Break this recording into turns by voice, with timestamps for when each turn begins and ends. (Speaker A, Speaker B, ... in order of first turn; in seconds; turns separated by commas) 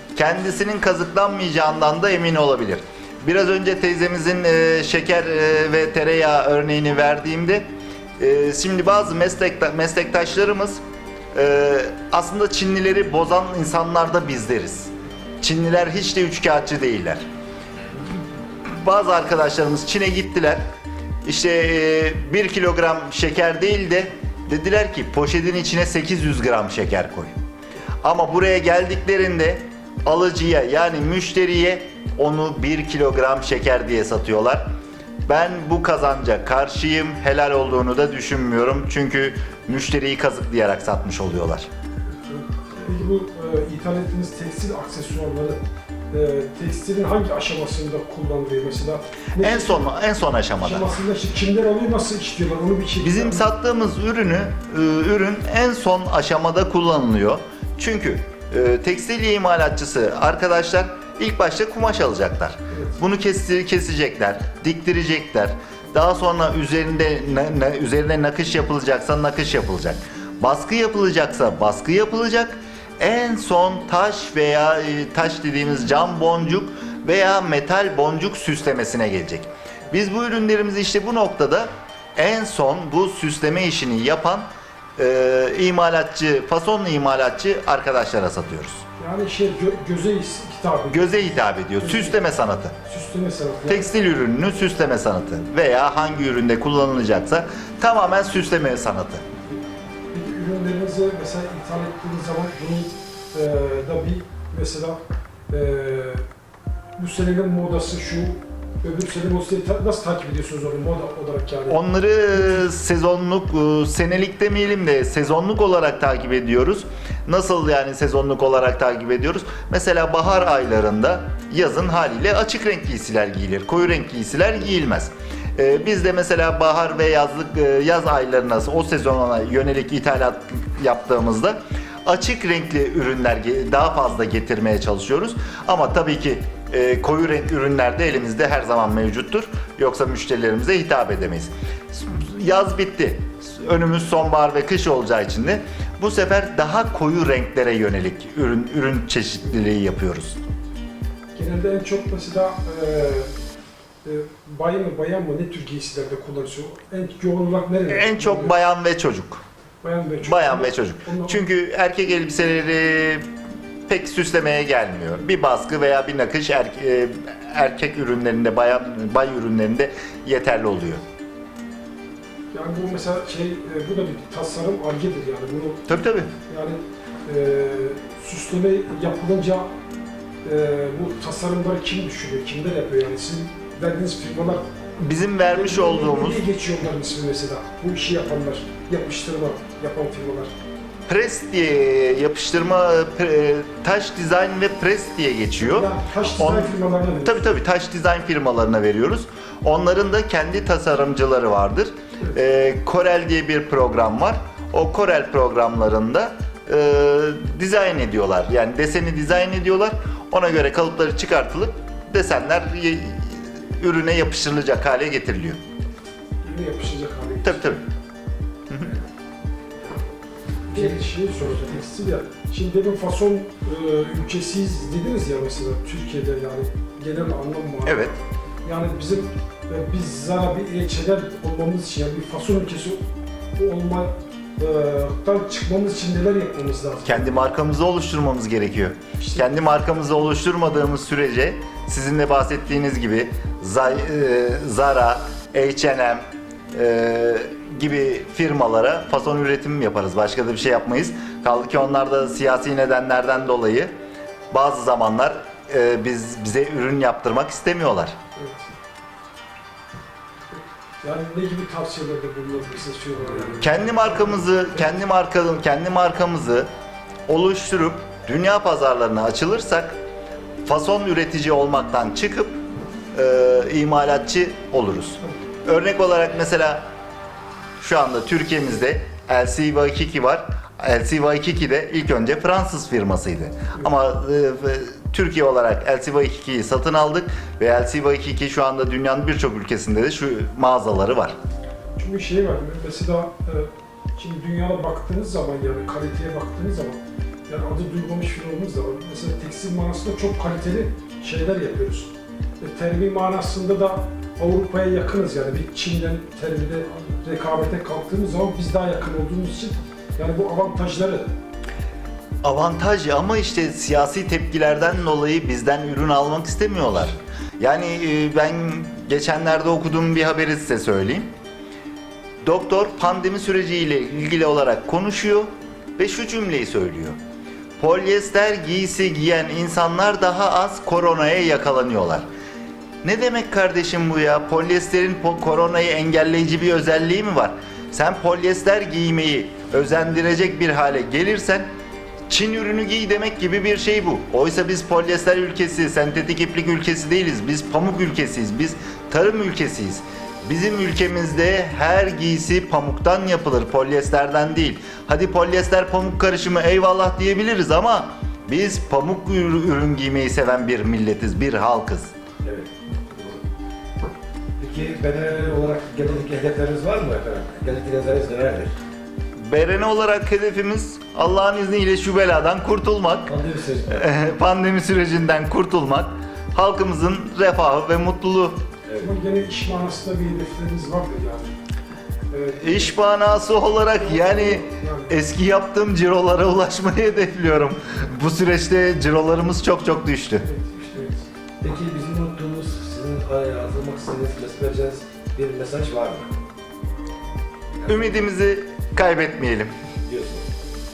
Speaker A: 0.1-7.7, Speaker A: 8.2-10.8, Speaker A: 11.3-17.2, Speaker A: 18.6-20.6, Speaker A: 21.2-27.3, Speaker A: 28.0-34.7, Speaker A: 35.3-41.7, Speaker B: 42.3-45.6, Speaker B: 46.1-49.9, Speaker A: 49.4-50.9, Speaker B: 50.6-53.5, Speaker A: 53.0-88.8, Speaker B: 62.7-63.0, Speaker B: 89.0-92.2, Speaker A: 90.9-92.8, Speaker B: 92.9-93.9, Speaker A: 93.7-99.2, Speaker B: 100.1-105.0, Speaker B: 105.5-106.2, Speaker B: 107.0-111.8, Speaker A: 111.7-150.4, Speaker B: 112.3-112.7, Speaker B: 151.3-153.3, Speaker B: 154.1-158.6, Speaker A: 157.9-159.4, Speaker B: 159.8-161.4, Speaker A: 160.2-163.3, Speaker A: 163.9-171.0, Speaker B: 172.5-175.9, Speaker A: 175.9-176.3, Speaker B: 176.5-179.7, Speaker B: 180.4-184.6, Speaker A: 185.0-186.4, Speaker B: 185.5-190.5, Speaker A: 191.1-215.6, Speaker B: 195.6-197.6, Speaker B: 216.4-217.8, Speaker A: 217.4-217.8, Speaker C: 220.7-221.8, Speaker B: 220.7-233.0, Speaker A: 227.8-228.1, Speaker B: 233.6-237.4, Speaker A: 237.1-253.9, Speaker B: 239.2-239.5, Speaker A: 254.5-258.1, Speaker B: 258.4-258.7, Speaker B: 260.5-264.9, Speaker A: 263.6-266.7, Speaker A: 267.3-270.0, Speaker A: 270.6-272.6, Speaker A: 273.1-276.9, Speaker A: 277.8-291.4, Speaker B: 292.0-311.3, Speaker A: 312.4-321.3, Speaker A: 322.4-327.2, Speaker A: 327.8-332.3, Speaker A: 333.0-341.7, Speaker A: 342.3-362.1, Speaker C: 362.4-363.4, Speaker C: 364.6-368.7, Speaker A: 369.4-373.3, Speaker C: 373.3-374.1, Speaker A: 373.9-378.6, Speaker C: 378.9-379.1, Speaker B: 379.0-381.5, Speaker B: 382.3-383.0, Speaker A: 382.6-390.5, Speaker B: 383.9-385.2, Speaker B: 390.4-391.2, Speaker C: 391.6-396.3, Speaker C: 397.8-398.3, Speaker A: 397.9-399.7, Speaker C: 400.0-400.5